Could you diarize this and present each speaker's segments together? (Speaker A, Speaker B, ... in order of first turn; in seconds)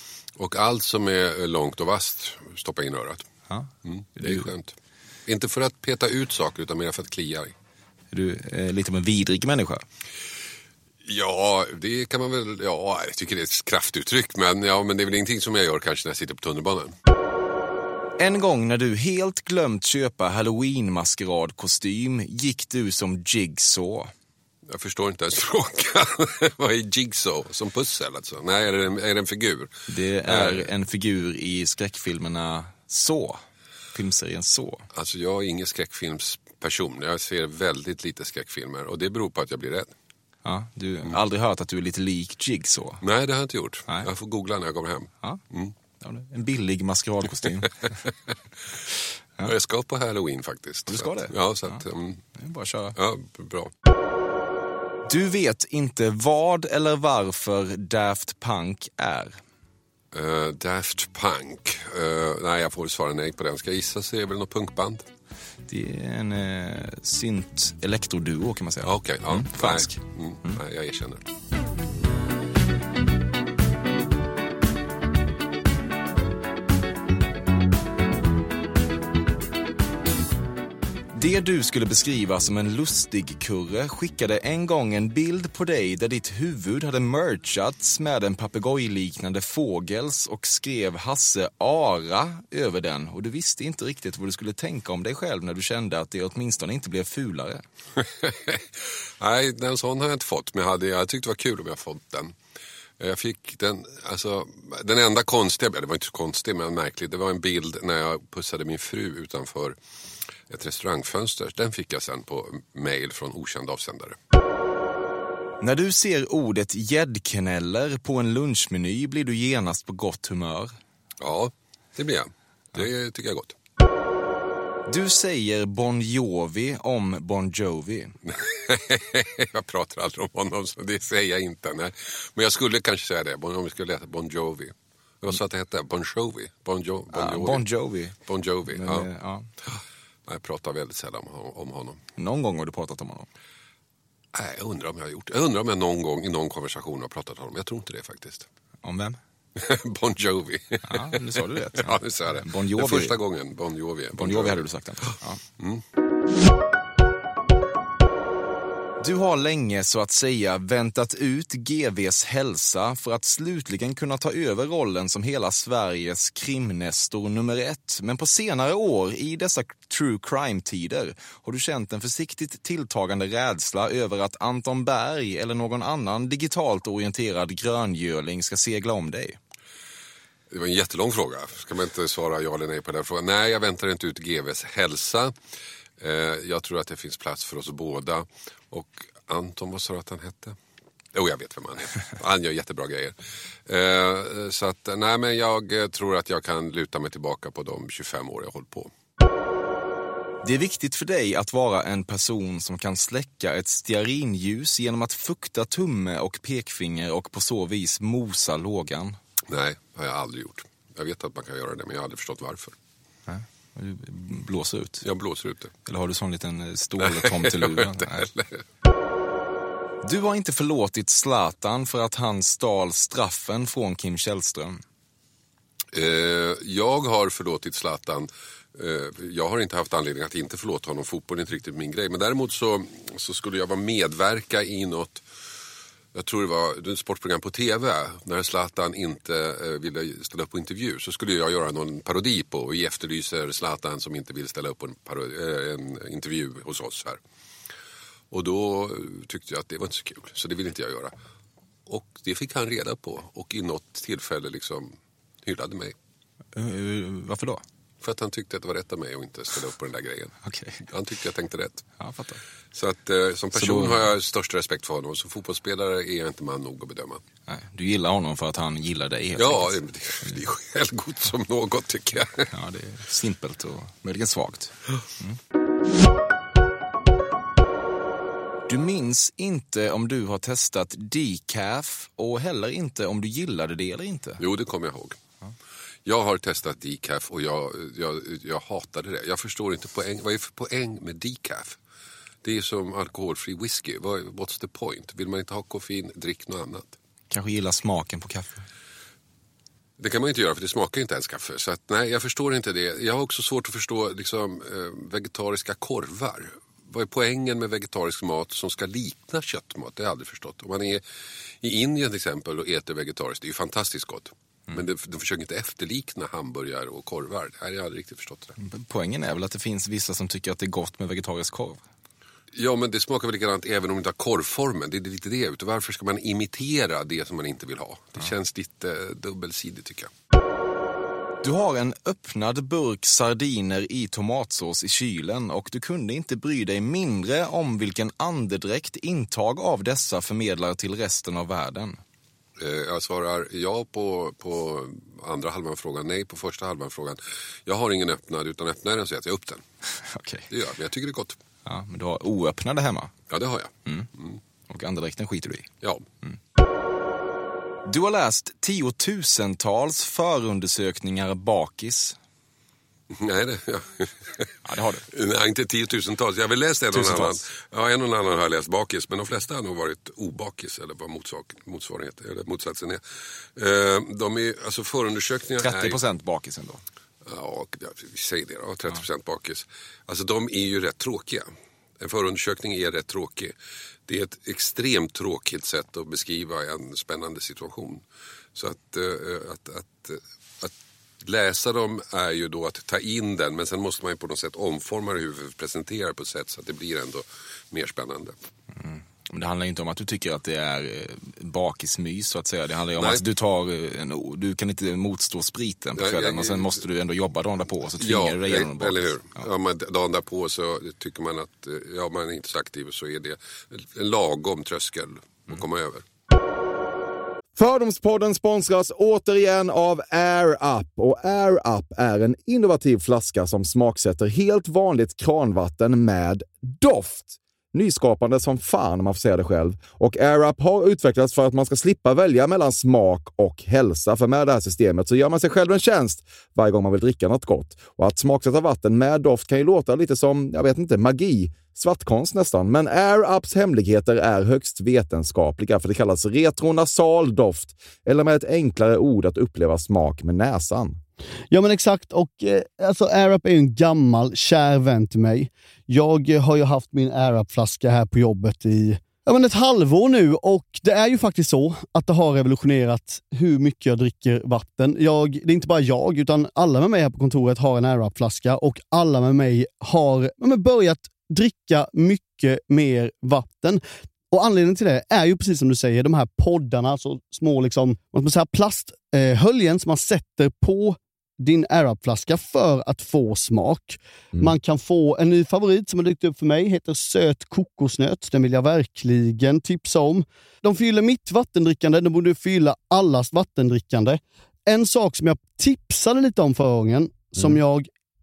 Speaker A: 0.4-3.3, 3.9-4.7, 5.3-7.5, 11.0-16.9, 24.7-29.7, 30.2-30.7, 34.9-39.9, 43.0-45.7, 49.4-52.2, 53.0-53.7, 60.1-65.0, 68.8-71.2, 98.2-98.6, 99.2-102.3, 103.0-109.8, 110.5-114.2, 121.2-123.5, 128.2-137.7, 138.3-139.1, 139.6-142.0, 144.3-148.5, 149.6-154.7, 180.5-185.3, 186.0-190.6, 191.1-193.1, 193.7-198.9, 209.5-212.7, 215.0-215.7, 217.0-218.6, 225.9-235.2, 236.1-247.2, 248.3-251.1, 251.9-255.9, 258.0-261.9, 262.7-267.2, 269.4-272.5, 284.4-285.2, 286.0-291.8, 292.4-296.9, 300.0-311.0, 311.6-318.5, 322.5-330.1, 342.6-349.6, 350.5-351.4, 353.3-354.4, 363.2-364.5, 365.1-373.0, 373.6-376.0, 377.2-381.5, 382.0-383.5, 384.1-388.0, 388.5-398.4, 403.0-403.2, 405.9-406.8, 408.0-416.0
Speaker B: 3.5-4.5, 8.1-9.8, 18.2-24.1, 29.9-33.4, 33.9-34.8, 40.4-43.0, 46.0-48.0, 50.9-51.8, 52.4-53.0, 55.1-59.4, 65.7-70.6, 81.1-97.6, 115.6-120.7, 124.9-128.1, 137.1-138.2, 138.7-139.5, 142.2-143.3, 148.8-149.2, 150.9-153.1, 154.1-155.4, 159.0-179.4, 200.4-209.2, 213.3-215.0, 215.8-218.3, 220.0-224.8, 256.5-257.6, 260.4-260.8, 262.0-262.4, 263.5-264.1, 267.5-269.7, 272.5-275.4, 278.7-284.4, 297.3-298.6, 318.6-321.8, 331.4-342.0, 350.1-350.4, 351.6-353.1, 354.7-355.7, 357.9-362.1, 364.6-365.0, 366.9-367.4, 375.6-376.8, 398.7-409.4
Speaker C: 417.6-451.0
Speaker D: 451.5-497.9